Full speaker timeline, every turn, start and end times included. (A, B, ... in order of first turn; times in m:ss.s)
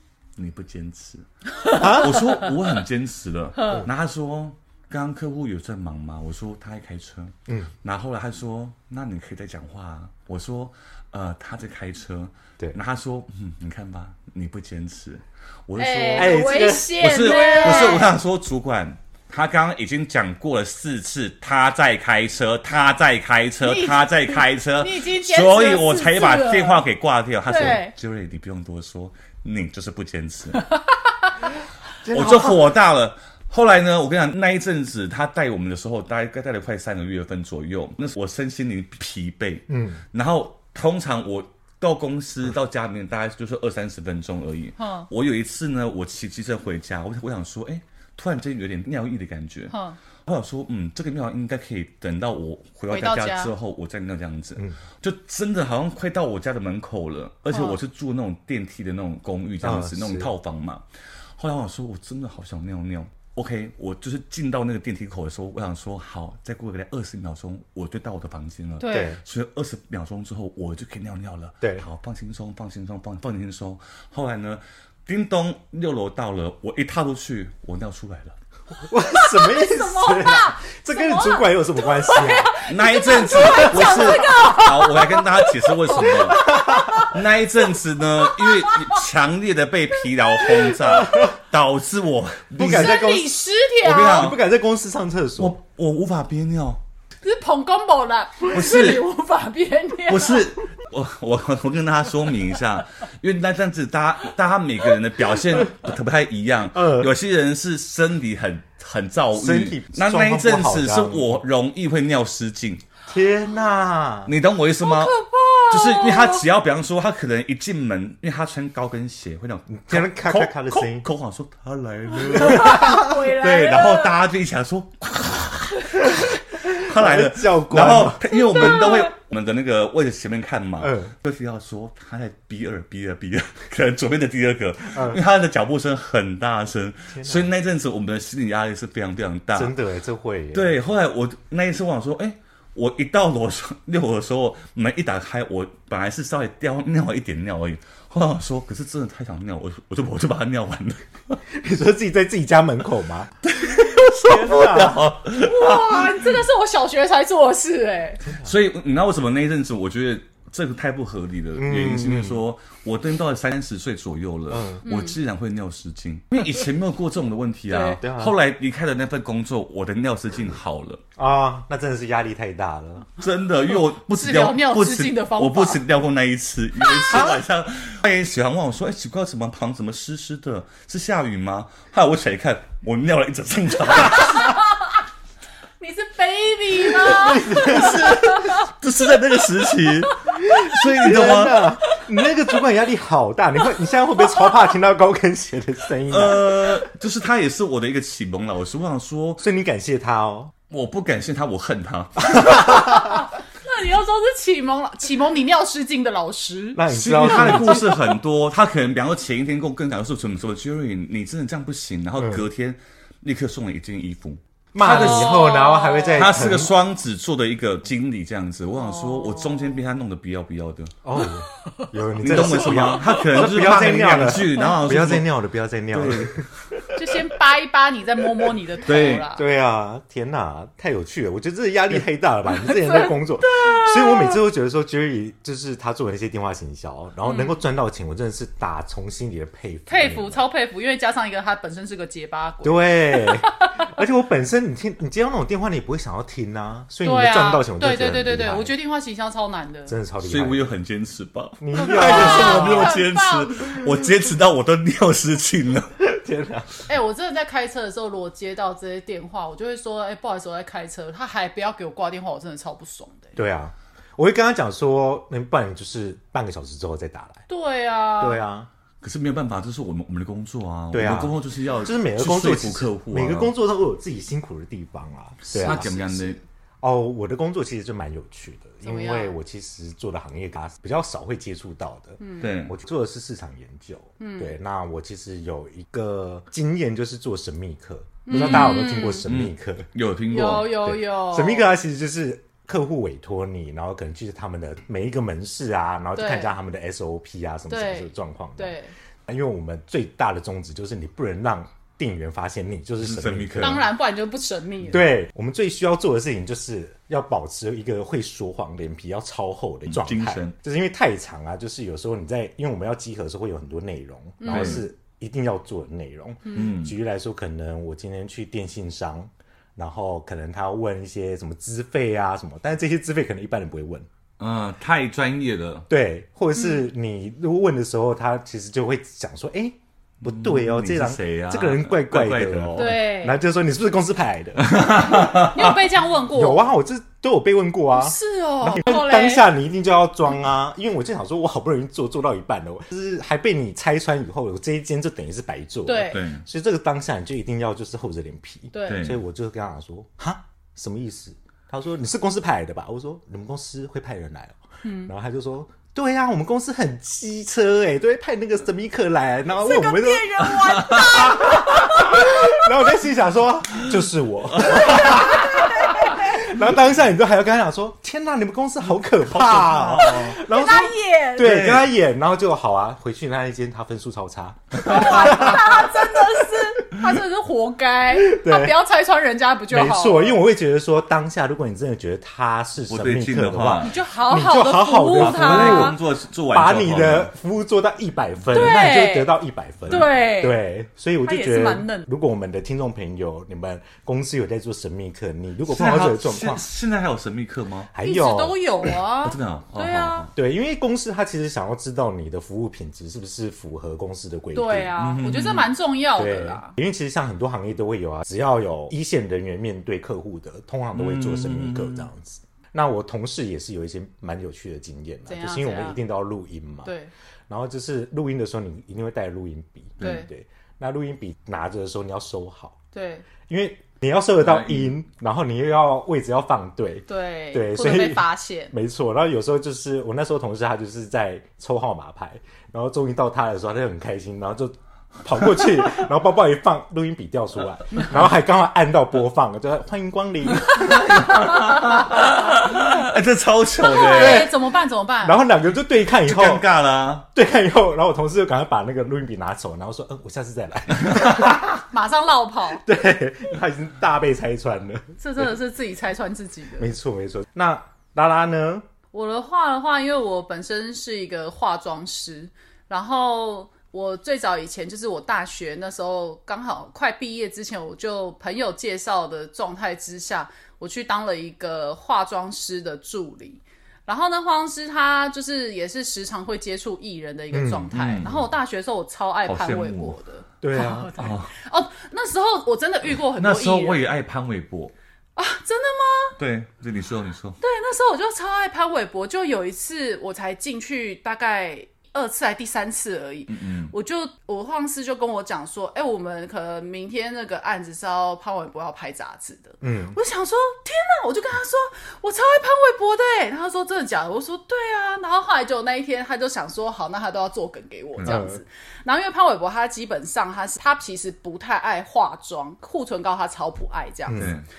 0:00.4-0:30.7 A
0:01.5-0:02.5 B
0:01.8-0:02.2 C
0:03.6-0:03.9 B
0:07.5-0:07.7 C
0:15.8-0:18.2 B
0:16.2-0:18.0 C
0:23.6-0:26.8 B
0:27.4-0:27.9 B
0:32.0-0:32.7 C
0:32.1-0:49.7 A
0:39.7-0:40.0 C
0:44.8-0:45.1 B
0:49.7-0:50.0 B
0:50.2-1:00.8 A
0:52.9-0:53.5 B
0:57.5-0:57.8 B
0:59.6-1:00.3 C
1:01.4-1:18.4 A
1:08.8-1:09.2 B
1:08.9-1:09.2 C
1:18.8-1:22.6 C
1:19.1-1:27.1 B
1:22.6-1:33.0 A
1:23.6-1:23.9 C
1:26.0-1:27.1 C
1:28.2-1:29.0 B
1:30.4-1:31.3 B
1:32.6-1:33.4 C
1:32.6-1:34.3 B
1:33.8-1:34.4 A
1:34.0-1:35.6 C
1:35.4-1:36.8 A
1:37.2-1:40.5 B
1:38.5-1:39.0 A
1:40.1-1:52.8 A
1:46.7-1:47.1 C
1:49.3-1:51.4 C
1:53.1-1:54.3 C
1:54.3-1:55.2 A
1:54.8-1:56.4 B
1:55.7-2:19.8 A
1:59.7-2:01.1 C
2:02.1-2:04.1 B
2:02.5-2:03.0 C
2:05.8-2:06.1 B
2:06.6-2:08.9 C
2:08.3-2:09.1 B
2:10.8-2:11.1 C
2:14.9-2:15.2 C
2:17.1-2:17.5 C
2:19.5-2:20.8 C
2:20.5-2:31.4 A
2:31.5-2:33.4 C
2:33.4-2:36.4 A
2:34.2-2:35.0 C
2:35.4-2:38.2 B
2:38.3-2:51.0 A
2:41.6-2:42.4 C
2:44.5-2:44.8 C
2:44.8-2:45.2 B
2:47.7-2:48.0 B
2:48.0-2:48.4 C
2:51.2-2:53.1 C
2:53.2-3:04.6 A
2:54.1-2:55.8 B
3:04.1-3:04.7 B
3:05.8-3:08.6 B
3:07.0-3:08.2 C
3:07.5-3:11.7 A
3:10.5-3:16.8 C
3:16.1-3:19.4 A
3:19.4-3:20.5 C
3:20.7-3:22.9 A
3:22.4-3:22.9 C
3:22.5-3:27.9 B
3:26.7-3:27.8 C
3:26.9-3:35.5 A
3:32.2-3:32.4 C
3:34.7-3:36.7 C
3:34.8-3:36.4 B
3:36.2-3:41.0 A
3:38.7-3:39.7 B
3:41.0-3:46.5 C
3:42.2-3:45.3 A
3:45.9-3:46.5 A
3:46.9-3:49.4 B
3:48.8-3:49.2 A
3:49.3-4:00.4 C
3:52.6-3:54.3 B
3:57.2-3:57.6 B
3:59.9-4:03.8 B
4:02.6-4:08.7 C
4:07.0-4:10.0 B
4:09.9-4:10.7 C
4:10.2-4:16.0 A
4:11.6-4:13.0 C
4:11.7-4:13.8 B
4:16.0-4:16.8 C
4:16.8-4:23.4 B
4:23.4-4:27.4 C
4:27.5-4:28.4 B
4:28.2-4:28.7 C
4:29.0-4:33.5 A
4:30.9-4:35.9 C
4:35.5-4:36.4 B
4:35.5-4:36.4 A
4:36.8-4:49.9 C
4:38.8-4:39.4 B
4:42.2-4:42.5 B
4:42.4-4:42.7 A
4:44.2-4:44.5 B
4:48.2-4:49.2 B
4:48.3-4:50.8 A
4:50.3-4:51.7 B
4:50.8-5:03.8 C
4:56.1-4:56.5 B
4:57.7-4:58.9 B
5:03.0-5:03.8 A
5:03.6-5:05.1 B
5:04.9-5:24.1 C
5:09.8-5:10.5 A
5:14.4-5:14.8 B
5:14.5-5:14.8 A
5:16.5-5:16.9 A
5:24.4-5:25.9 A
5:25.9-5:35.5 C
5:30.2-5:32.9 A
5:32.8-5:33.4 B
5:34.6-5:35.8 A
5:35.2-5:36.7 B
5:36.3-6:17.0 C
5:37.9-5:39.5 B
5:45.8-5:46.2 B
5:46.1-5:46.4 A
5:48.7-5:49.1 B
5:48.9-5:49.2 A
5:54.8-5:55.1 B
5:59.6-6:02.7 B
6:00.5-6:01.4 A
6:04.6-6:05.2 A
6:04.7-6:06.5 B
6:09.2-6:10.4 A
6:10.0-6:11.7 B
6:11.4-6:11.9 A
6:14.8-6:20.4 B
6:14.9-6:15.3 A
6:18.1-6:18.8 C
6:19.7-6:36.6 C
6:22.9-6:23.9 A
6:23.8-6:26.0 B
6:25.1-6:27.3 A
6:28.5-6:29.3 B
6:29.9-6:30.6 B
6:31.2-6:32.1 B
6:35.7-6:37.9 A
6:37.9-6:38.6 C
6:38.0-6:40.3 B
6:39.2-6:40.3 A
6:40.4-6:45.0 C
6:44.5-6:46.7 B
6:45.0-6:45.7 A
6:46.2-6:56.9 C
6:50.9-6:52.1 A
6:55.3-6:56.0 B
6:56.8-6:57.1 B
6:57.5-7:02.8 C
7:00.0-7:00.3 A
7:00.0-7:00.3 B
7:02.9-7:03.3 B
7:03.5-7:21.5 C
7:04.4-7:04.9 A
7:07.1-7:08.7 B
7:20.7-7:24.5 A
7:23.8-7:25.4 B
7:24.0-7:24.6 C
7:25.2-7:26.6 C
7:26.2-7:27.2 A
7:27.3-7:31.8 C
7:31.9-7:32.8 B
7:32.8-7:35.6 C
7:35.2-7:36.9 B
7:36.8-7:38.9 C
7:39.1-8:04.1 B
7:57.5-7:58.5 C
7:57.9-7:58.4 A
7:59.4-8:00.2 A
8:00.6-8:01.3 C
8:01.1-8:01.5 A
8:03.3-8:04.9 A
8:05.4-8:06.4 B
8:06.4-8:07.6 A
8:07.6-8:34.5 B
8:13.5-8:13.9 A
8:19.8-8:20.2 C
8:28.2-8:28.6 C
8:34.3-8:34.5 C
8:34.3-8:34.6 A